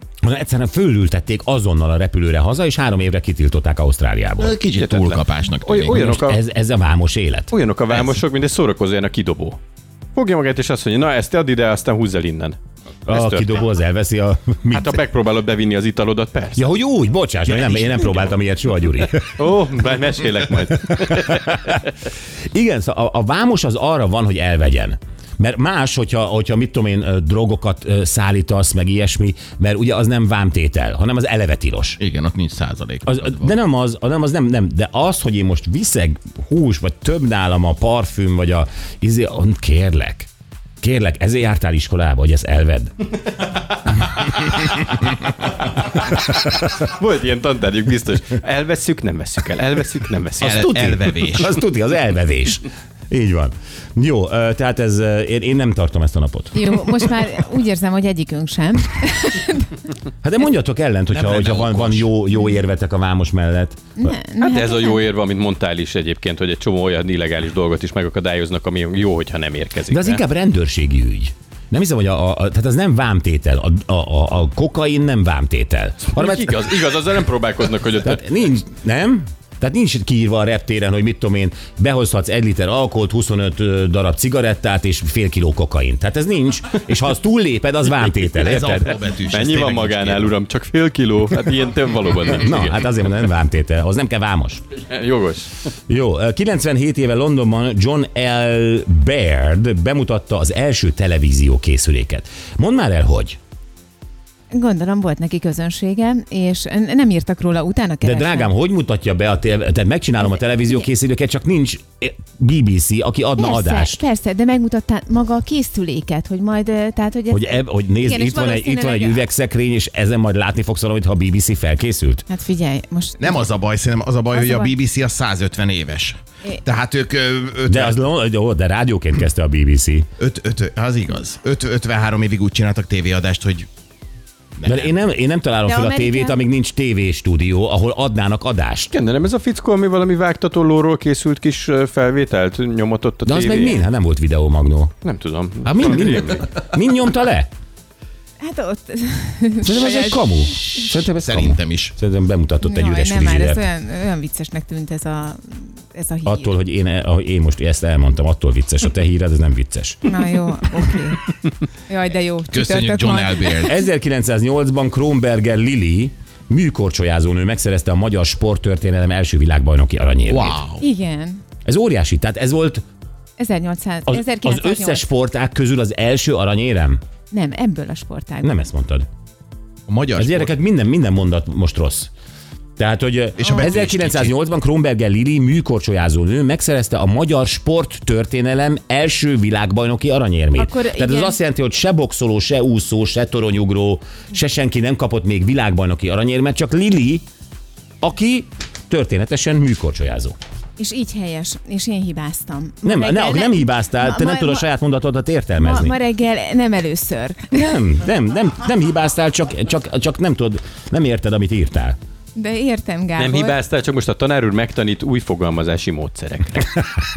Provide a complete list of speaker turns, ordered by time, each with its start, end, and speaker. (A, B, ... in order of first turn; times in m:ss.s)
0:00.2-0:04.6 A
0:04.4-0:06.2 B
0:04.8-0:06.4 C
0:05.9-0:07.5 A
0:07.5-0:09.6 C
0:07.9-0:08.2 B
0:10.2-0:13.6 C
0:13.1-0:15.0 A
0:14.7-0:16.6 C
0:16.6-0:19.4 A
0:19.4-0:21.6 C
0:20.7-0:21.8 A
0:22.5-0:32.0 A
0:32.0-0:33.5 B
0:33.1-0:40.3 A
0:40.8-0:43.1 A
0:44.0-0:44.7 A
0:46.0-0:50.7 C
0:50.4-0:57.1 A
0:50.4-0:51.6 B
0:56.5-0:59.8 D
1:00.2-1:04.1 A
1:01.1-1:02.1 B
1:04.0-1:05.1 D
1:04.4-1:10.2 C
1:09.9-1:16.8 A
1:16.2-1:18.2 C
1:18.0-1:29.0 A
1:28.4-1:30.3 B
1:29.3-1:32.8 C
1:32.4-1:34.6 A
1:34.9-1:35.5 C
1:35.9-1:43.4 A
1:44.5-1:48.5 D
1:48.0-1:54.0 A
1:53.4-1:59.2 D
1:57.3-2:02.3 A
2:02.3-2:03.5 D
2:03.2-2:08.0 B
2:04.3-2:04.7 D
2:07.7-2:10.1 A
2:10.2-2:13.7 B
2:14.6-2:14.9 B
2:14.6-2:18.9 A
2:15.7-2:16.4 D
2:18.9-2:23.8 C
2:23.2-2:24.9 A
2:25.0-2:26.5 C
2:25.6-2:27.5 A
2:28.4-2:30.6 D
2:29.6-2:33.6 A
2:30.7-2:31.9 B
2:32.6-2:36.6 D
2:36.2-2:40.1 A
2:40.1-2:41.2 D
2:41.9-2:43.8 D
2:42.5-2:43.7 B
2:43.6-2:50.6 A
2:50.3-2:50.8 B
2:50.8-2:51.4 D
2:51.6-2:52.8 A
2:53.4-2:55.0 D
2:54.1-2:57.0 A
2:57.3-2:58.6 D
2:58.4-2:59.1 A
2:59.9-3:00.5 B
3:00.2-3:02.1 A
3:02.8-3:17.2 A
3:03.4-3:04.4 B
3:10.6-3:11.4 D
3:18.0-3:20.4 A
3:20.8-3:24.7 D
3:22.8-3:26.0 A
3:25.6-3:27.8 D
3:27.5-3:32.0 A
3:32.4-3:33.6 D
3:33.2-3:36.8 C